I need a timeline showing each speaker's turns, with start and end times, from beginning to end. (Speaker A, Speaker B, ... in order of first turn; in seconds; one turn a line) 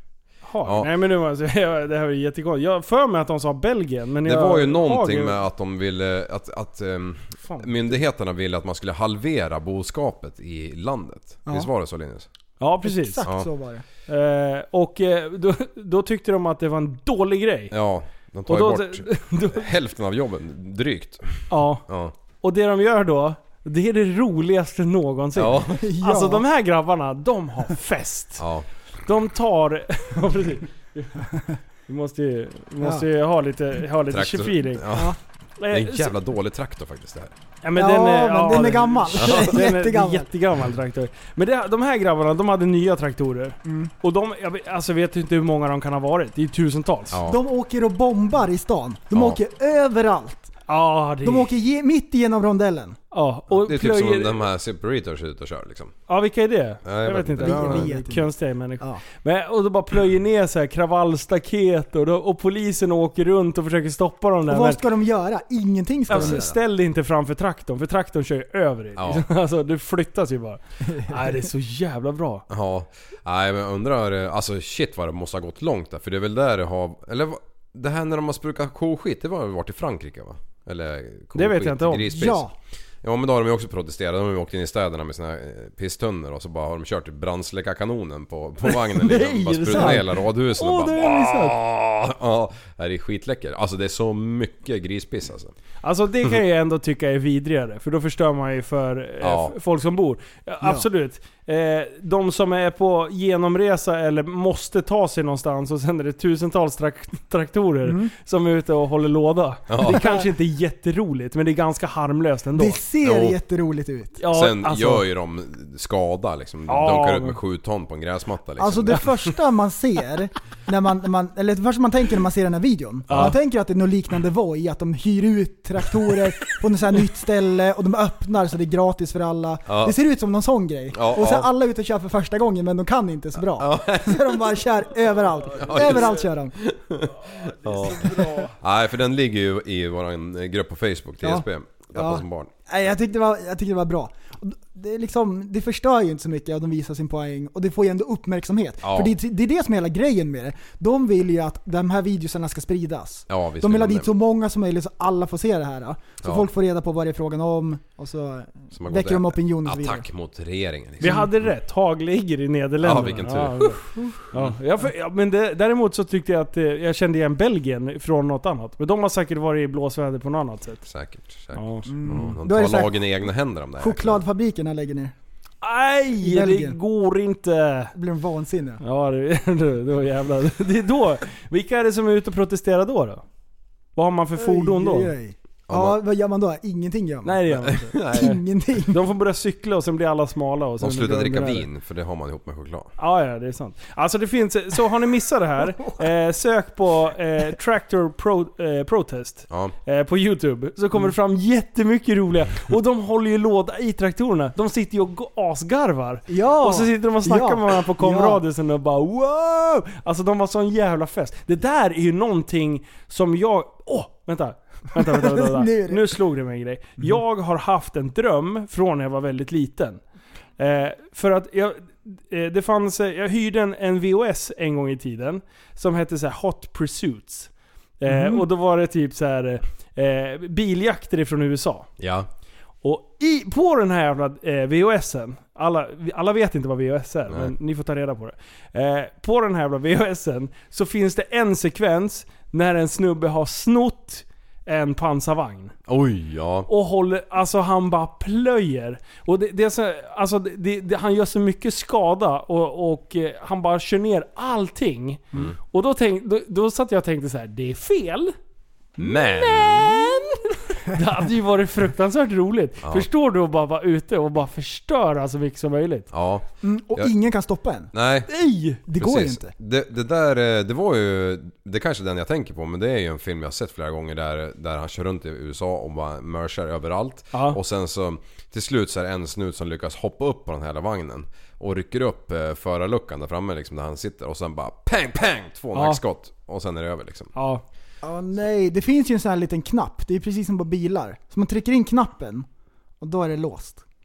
Speaker A: 0.5-5.3
Speaker B: 4.2-12.2
Speaker A: 7.4-7.9
Speaker A: 12.6-13.2
Speaker C: 12.8-13.8
Speaker A: 14.1-17.7
Speaker B: 17.7-22.1
Speaker A: 18.5-19.7
Speaker A: 21.5-21.8
Speaker A: 22.4-28.4
Speaker B: 25.4-25.8
Speaker C: 25.7-26.4
Speaker B: 28.4-28.7
Speaker A: 29.1-31.3
Speaker A: 31.9-34.9
Speaker C: 32.8-33.0
Speaker B: 34.1-35.1
Speaker C: 34.9-35.2
Speaker A: 35.6-36.1
Speaker B: 35.7-37.3
Speaker A: 37.6-47.2
Speaker C: 37.8-40.3
Speaker B: 39.2-39.5
Speaker C: 43.6-43.9
Speaker B: 47.1-47.4
Speaker C: 47.2-50.5
Speaker B: 49.1-49.4
Speaker A: 50.7-51.5
Speaker C: 51.2-53.0
Speaker A: 53.1-54.4
Speaker B: 53.5-55.9
Speaker A: 56.1-64.8
Speaker B: 56.8-57.9
Speaker C: 57.4-59.0
Speaker C: 64.5-66.6
Speaker A: 66.1-72.4
Speaker B: 66.1-66.4
Speaker B: 69.0-69.2
Speaker C: 70.9-71.4
Speaker B: 72.5-82.5
Speaker A: 81.3-82.1
Speaker C: 82.1-82.5
Speaker B: 83.0-95.5
Speaker A: 88.7-91.6
Speaker C: 89.7-90.0
Speaker A: 95.8-112.8
Speaker B: 99.2-99.5
Speaker C: 107.8-108.1
Speaker B: 109.7-110.0
Speaker C: 109.8-110.2
Speaker C: 112.5-114.2
Speaker B: 113.0-113.3
Speaker A: 114.2-115.0
Speaker B: 114.3-119.3
Speaker A: 116.7-117.4
Speaker C: 118.6-136.6
Speaker B: 123.1-123.4
Speaker B: 129.7-129.9
Speaker B: 130.9-131.5
Speaker B: 133.6-134.4
Speaker B: 135.6-142.5
Speaker C: 137.9-138.4
Speaker C: 141.2-160.1
Speaker B: 148.8-149.2
Speaker B: 153.3-154.1
Speaker B: 158.7-161.5
Speaker A: 161.0-170.8
Speaker B: 162.8-164.5
Speaker B: 170.8-174.2
Speaker A: 171.5-171.9
Speaker C: 171.9-173.0
Speaker C: 173.8-175.1
Speaker A: 175.6-177.9
Speaker C: 176.2-176.8
Speaker C: 177.9-178.8
Speaker A: 178.8-183.2
Speaker A: 183.9-185.1
Speaker C: 184.3-187.4
Speaker B: 185.7-186.0
Speaker A: 187.2-188.4
Speaker B: 187.6-188.3
Speaker C: 188.1-189.0
Speaker A: 188.9-191.7
Speaker B: 190.8-192.9
Speaker A: 193.0-220.0
Speaker C: 206.3-208.4
Speaker C: 214.9-216.2
Speaker A: 220.6-231.9
Speaker C: 228.1-228.4
Speaker B: 232.0-232.3
Speaker A: 232.8-245.7
Speaker B: 245.9-246.7
Speaker A: 246.7-258.3
Speaker B: 259.0-260.1
Speaker A: 259.1-266.1
Speaker B: 266.1-267.1
Speaker C: 266.6-267.9
Speaker B: 267.9-268.3
Speaker A: 268.3-268.8
Speaker C: 268.9-269.5
Speaker B: 268.9-287.3
Speaker A: 277.3-277.6
Speaker A: 285.7-286.0
Speaker A: 287.3-287.6
Speaker C: 288.0-292.5
Speaker C: 293.0-293.8